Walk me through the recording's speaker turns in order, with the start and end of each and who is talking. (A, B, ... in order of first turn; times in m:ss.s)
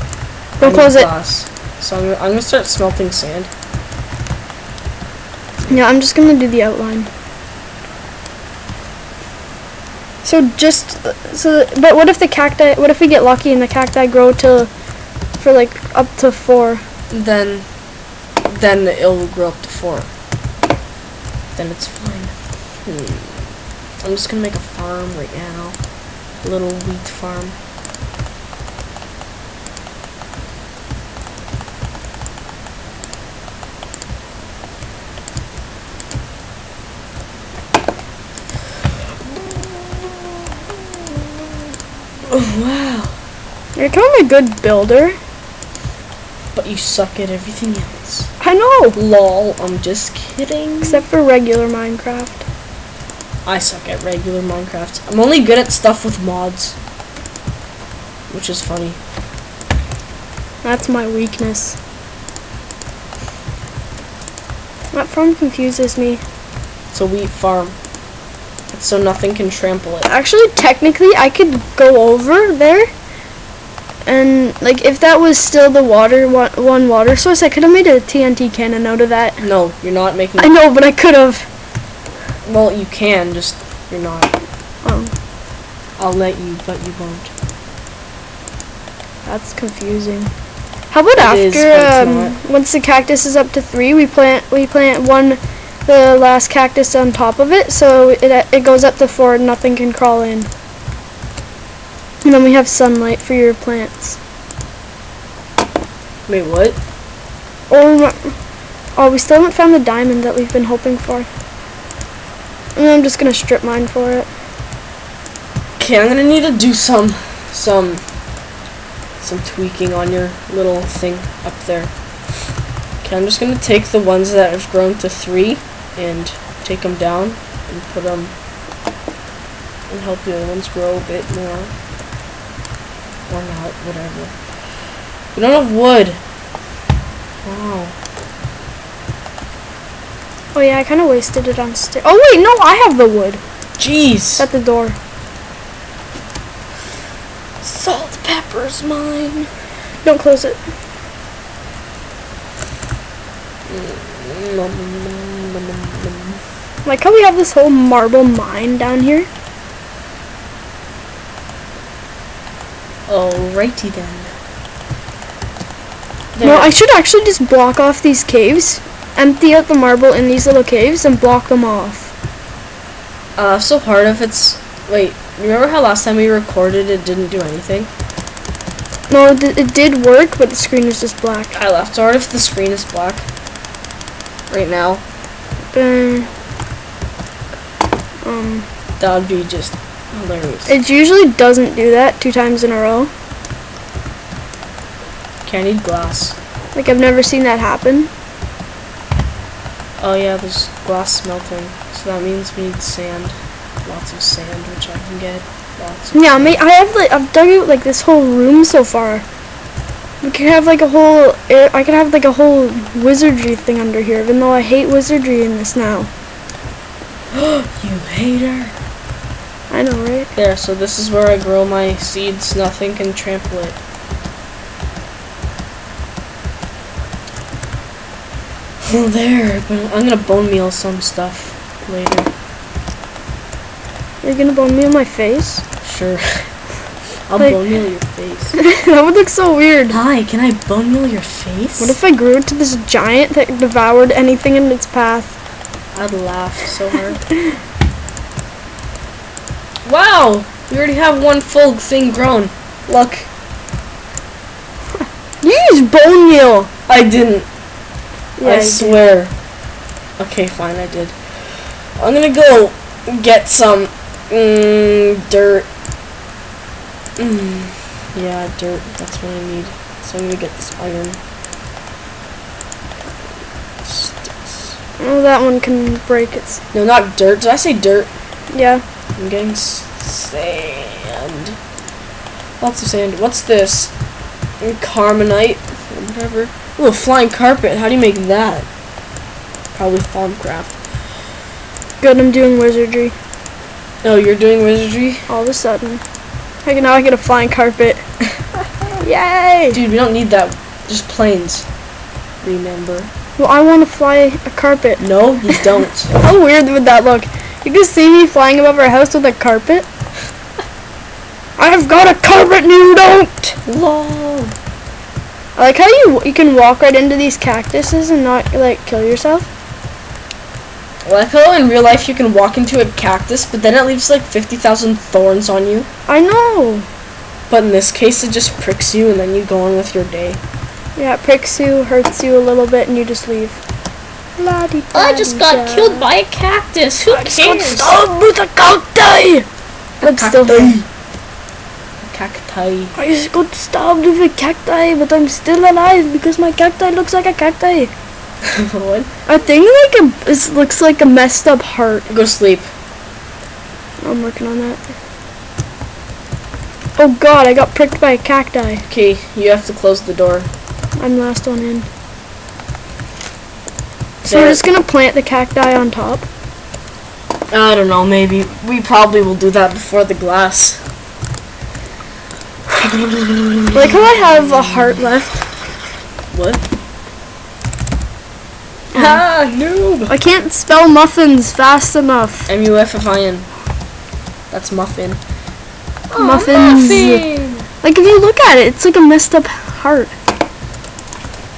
0:00.6-0:01.1 A
0:00.6-0:03.5 B
0:05.7-0:07.1 A
0:10.2-0:14.7 A
0:15.4-0:16.8 A
0:17.1-0:17.6 B
0:18.4-0:20.1 B
0:21.6-0:22.3 B
0:22.8-0:23.4 B
0:24.0-0:25.8 B
0:26.4-0:27.6 B
0:39.5-0:40.3 B
0:42.3-0:43.2 B
0:43.8-0:45.2 A
0:46.5-0:48.3 B
0:48.4-0:49.0 A
0:48.9-0:51.0 B
0:50.8-0:52.4 A
0:53.4-0:56.8 B
0:58.3-0:59.0 B
1:00.6-1:01.8 A
1:04.9-1:06.2 A
1:06.9-1:07.8 B
1:08.7-1:10.1 B
1:10.1-1:12.9 A
1:14.0-1:19.4 A
1:19.4-1:20.5 B
1:20.4-1:21.5 A
1:22.4-1:24.3 B
1:24.8-1:25.1 A
1:26.0-1:27.3 B
1:29.2-1:30.3 A
1:30.9-1:40.5 A
1:31.2-1:32.4 B
1:42.2-1:44.2 A
1:46.3-1:46.8 B
1:47.7-1:48.3 A
1:49.0-1:51.3 A
1:52.7-1:54.3 A
1:55.8-1:58.0 B
1:59.2-2:01.9 B
2:03.0-2:08.3 B
2:09.9-2:11.7 B
2:13.3-2:14.3 B
2:15.3-2:16.2 B
2:17.4-2:17.9 B
2:20.5-2:23.4 A
2:23.8-2:24.4 B
2:24.4-2:25.0 A
2:27.6-2:29.5 B
2:30.0-2:30.6 A
2:33.7-2:36.4 B
2:36.8-2:39.3 A
2:43.1-2:44.3 B
2:46.3-2:46.7 B
2:46.4-2:52.1 A
2:53.4-2:57.9 B
2:59.1-3:01.6 A
3:01.5-3:03.2 B
3:04.5-3:05.0 B
3:05.7-3:06.3 A
3:08.2-3:08.7 A
3:09.0-3:10.7 B
3:10.7-3:13.1 A
3:15.4-3:16.3 B
3:16.7-3:18.1 A
3:20.0-3:26.6 B
3:26.1-3:29.2 A
3:30.2-3:36.1 A
3:37.3-3:38.8 B
3:39.7-3:40.3 A
3:40.3-3:43.8 B
3:48.8-3:52.3 B
3:54.2-3:55.6 A
3:55.8-3:56.5 B
3:57.3-3:58.6 B
3:58.5-4:00.0 A
3:59.9-4:02.0 B
4:01.8-4:05.3 A
4:05.9-4:07.2 B
4:09.8-4:13.3 B
4:15.4-4:16.7 A
4:16.9-4:17.5 B
4:18.4-4:19.0 A
4:18.4-4:19.3 B
4:20.2-4:25.7 B
4:27.2-4:31.2 B
4:33.8-4:34.8 B
4:35.0-4:36.6 A
4:36.7-4:38.1 B
4:38.5-4:38.8 A
4:39.2-4:41.6 B
4:42.6-4:43.9 B
4:44.6-4:48.6 B
4:49.7-4:50.7 B
4:52.0-4:53.1 A
4:54.0-4:55.2 B
4:55.3-4:56.0 A
4:56.6-4:58.0 A
4:59.0-4:59.8 A
4:59.7-5:01.7 B
5:02.4-5:03.1 B
5:03.4-5:09.8 A
5:05.0-5:06.1 B
5:11.6-5:13.6 A
5:13.6-5:14.5 B
5:15.6-5:19.5 A
5:21.0-5:25.9 B
5:26.1-5:26.8 A
5:27.5-5:30.4 B
5:31.0-5:33.6 A
5:34.4-5:36.1 A
5:34.9-5:38.0 B
5:37.0-5:39.4 A
5:40.0-5:40.8 A
5:40.0-5:40.8 B
5:42.0-5:42.9 B
5:42.9-5:47.9 A
5:48.5-5:49.1 B
5:49.3-5:52.1 A
5:52.1-5:52.7 B
5:54.0-5:54.8 A
5:57.0-5:58.8 A
5:58.9-6:00.5 B
6:01.0-6:01.9 A
6:04.2-6:06.2 A
6:04.2-6:04.6 B
6:07.5-6:10.8 B
6:12.7-6:14.8 B
6:13.7-6:15.6 A
6:16.3-6:16.6 B
6:18.9-6:20.1 B
6:18.9-6:19.2 A
6:20.1-6:22.5 A
6:22.5-6:23.5 B
6:24.5-6:25.2 B
6:26.1-6:27.7 B
6:26.2-6:27.2 A
6:27.8-6:30.1 A